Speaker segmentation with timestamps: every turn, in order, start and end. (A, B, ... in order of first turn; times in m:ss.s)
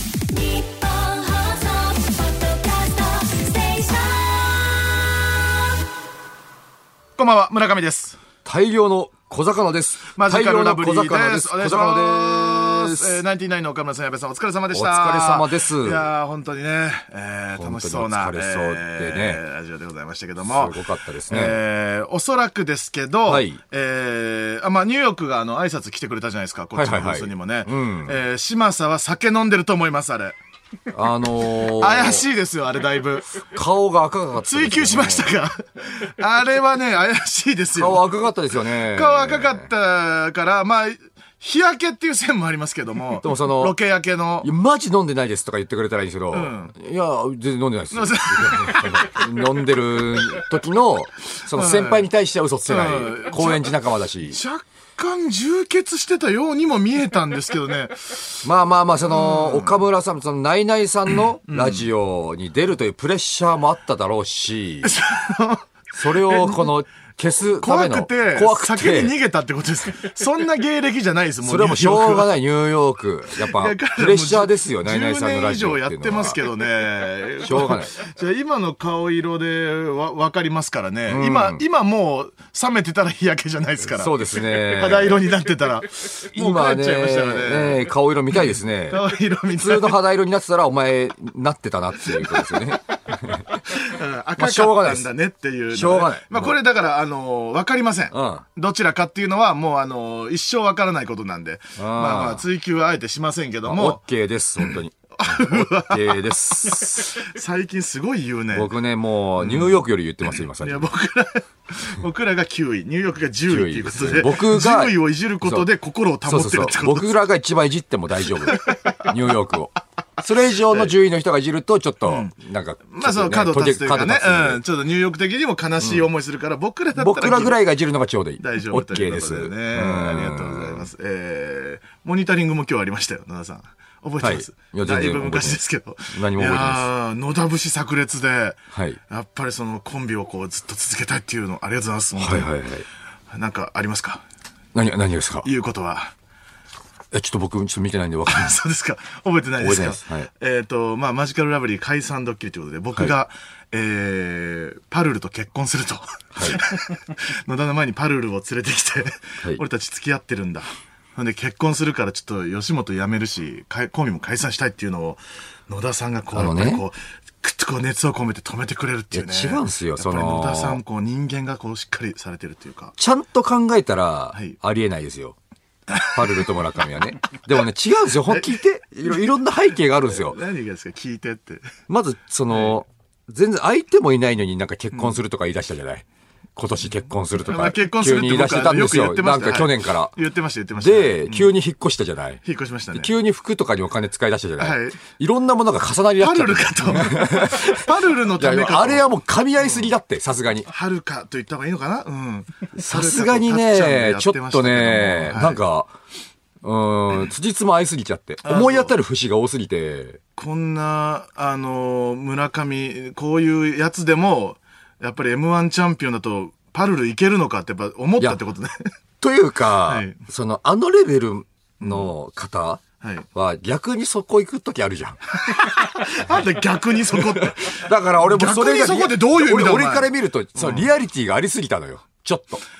0:00.3-0:05.0 A
0:07.2-0:08.2 B
0:08.4-0:13.2 C
0:10.1-0:30.3 B
0:14.7-0:16.1 C
0:17.6-0:19.4 C
0:20.4-0:21.6 C
0:23.3-0:23.6 C
0:26.7-0:28.2 C
0:30.9-0:32.2 C
0:31.6-0:33.4 B
0:33.4-0:35.3 C
0:34.4-0:38.1 B
0:37.7-0:39.7 C
0:38.6-0:44.5 B
0:43.2-0:43.8 C
0:44.4-0:54.4 C
0:46.3-0:46.7 B
0:47.9-0:49.4 B
0:51.5-0:52.1 B
0:52.6-0:58.4 B
0:58.4-1:04.9 C
0:59.0-0:59.8 B
1:01.4-1:01.9 B
1:04.8-1:06.7 B
1:06.0-1:09.2 C
1:07.4-1:12.3 B
1:11.4-1:16.4 C
1:13.4-1:27.9 B
1:17.4-1:17.9 C
1:21.1-1:21.6 C
1:23.8-1:25.2 C
1:26.3-1:33.6 C
1:28.9-1:30.0 B
1:32.1-1:32.7 B
1:33.5-1:44.0 B
1:34.4-1:35.1 C
1:35.7-1:36.6 C
1:38.1-1:38.4 C
1:41.8-1:42.4 C
1:43.6-1:47.2 C
1:44.7-1:48.7 B
1:48.5-1:50.9 C
1:49.4-1:49.8 B
1:50.4-1:57.1 B
1:53.5-1:55.7 C
1:56.2-2:04.6 C
1:58.4-1:59.1 B
2:00.7-2:00.9 B
2:02.0-2:02.3 B
2:02.9-2:07.6 B
2:05.8-2:06.1 C
2:07.0-2:10.9 C
2:08.4-2:22.5 B
2:14.2-2:16.9 C
2:18.7-2:19.0 C
2:22.2-2:22.8 C
2:23.3-2:24.2 B
2:24.7-2:25.5 C
2:25.4-2:26.1 B
2:27.1-2:28.6 C
2:28.3-2:53.0 B
2:29.6-2:30.3 C
2:36.3-2:36.6 C
2:46.3-2:46.8 C
2:49.1-2:50.8 C
2:53.0-2:55.4 C
2:56.0-2:56.4 B
2:56.0-3:00.4 C
2:58.2-2:59.2 B
3:00.0-3:01.7 B
3:01.9-3:06.0 C
3:06.6-3:10.2 C
3:07.4-3:11.5 B
3:10.8-3:12.4 C
3:12.4-3:13.1 B
3:12.9-3:20.7 C
3:14.6-3:15.0 B
3:16.2-3:19.1 B
3:19.6-3:19.9 B
3:20.6-3:25.6 B
3:22.8-3:25.9 C
3:26.6-3:30.2 C
3:28.4-3:28.9 B
3:30.4-3:38.9 B
3:39.2-3:42.8 C
3:39.8-3:40.2 B
3:41.8-3:42.1 B
3:43.3-3:45.2 C
3:45.4-3:50.9 B
3:47.1-3:52.6 C